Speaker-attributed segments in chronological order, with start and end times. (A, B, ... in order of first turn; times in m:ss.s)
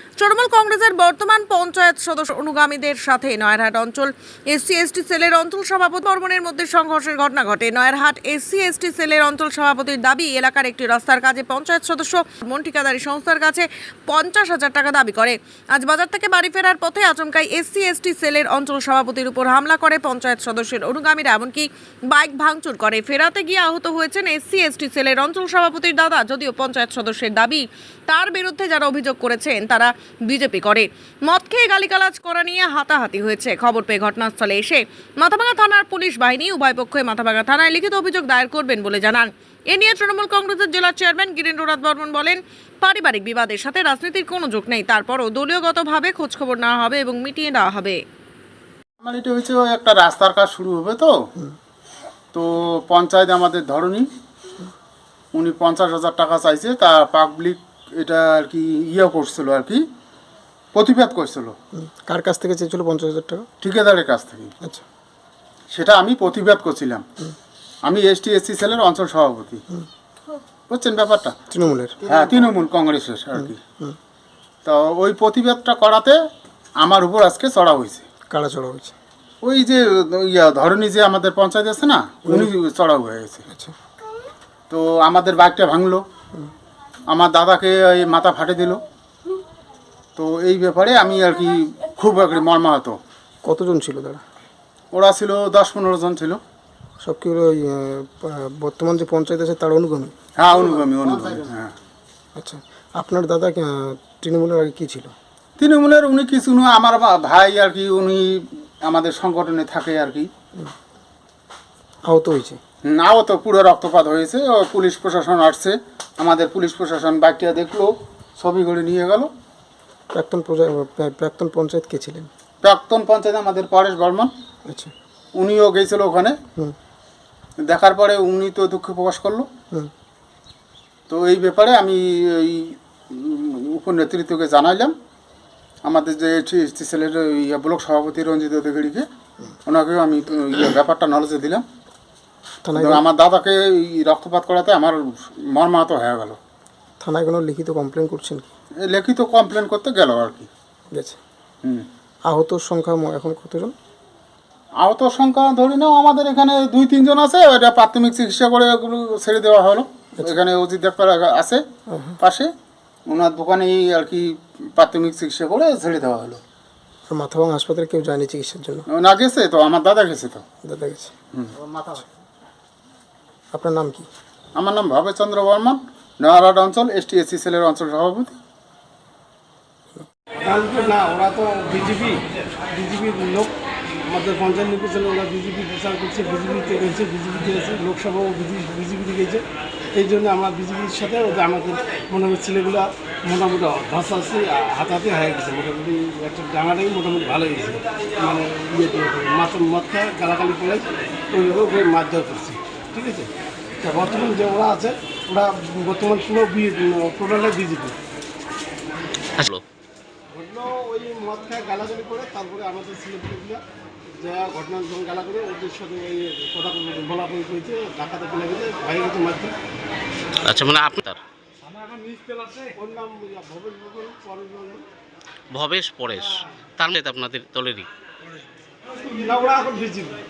0:00.2-0:48.0 A
0:49.0-0:51.1 B
0:52.3-0:54.1 B
0:55.3-0:59.8 B
1:00.7-1:01.6 B
1:01.7-1:03.5 C
1:03.6-1:04.5 B
1:05.7-1:07.0 B
1:07.8-1:09.6 B
1:10.7-1:11.4 B
1:11.5-1:12.4 C
1:12.0-1:13.6 B
1:13.4-1:14.0 C
1:14.6-1:16.2 B
1:16.8-1:18.0 B
1:18.3-1:18.9 C
1:19.4-1:23.4 B
1:24.7-1:26.0 B
1:27.1-1:28.8 B
1:30.2-1:33.0 B
1:33.4-1:34.2 C
1:34.9-1:36.4 B
1:37.0-1:40.1 C
1:40.4-1:41.7 B
1:42.4-1:45.1 C
1:45.6-1:50.3 B
1:52.0-1:52.6 C
1:52.8-1:59.3 B
2:00.1-2:02.3 C
2:02.6-2:04.3 B
2:04.6-2:04.9 C
2:05.3-2:06.4 B
2:07.6-2:09.5 B
2:11.1-2:14.9 B
2:15.8-2:19.0 B
2:19.6-2:21.6 B
2:22.6-2:23.0 C
2:22.8-2:26.4 B
2:27.0-2:28.5 C
2:28.8-2:30.5 B
2:30.9-2:31.2 C
2:32.3-2:33.7 C
2:34.8-2:41.6 B
2:41.9-2:42.2 C
2:42.2-2:42.5 B
2:43.1-2:46.4 B
2:47.1-2:48.8 C
2:48.9-2:50.4 B
2:50.6-2:51.1 C
2:51.4-2:51.6 B
2:51.7-2:52.0 C
2:53.5-2:54.1 C
2:54.6-2:58.4 B
3:00.4-3:02.2 D
3:02.7-3:03.5 D
3:04.1-3:09.4 D
3:10.0-3:23.3 D
3:23.8-3:28.0 D
3:29.4-3:29.6 E
3:30.3-3:33.6 D
3:34.2-3:39.5 D
3:40.5-3:41.2 E
3:42.7-3:44.8 D
3:45.5-3:47.9 E
3:49.1-3:50.2 D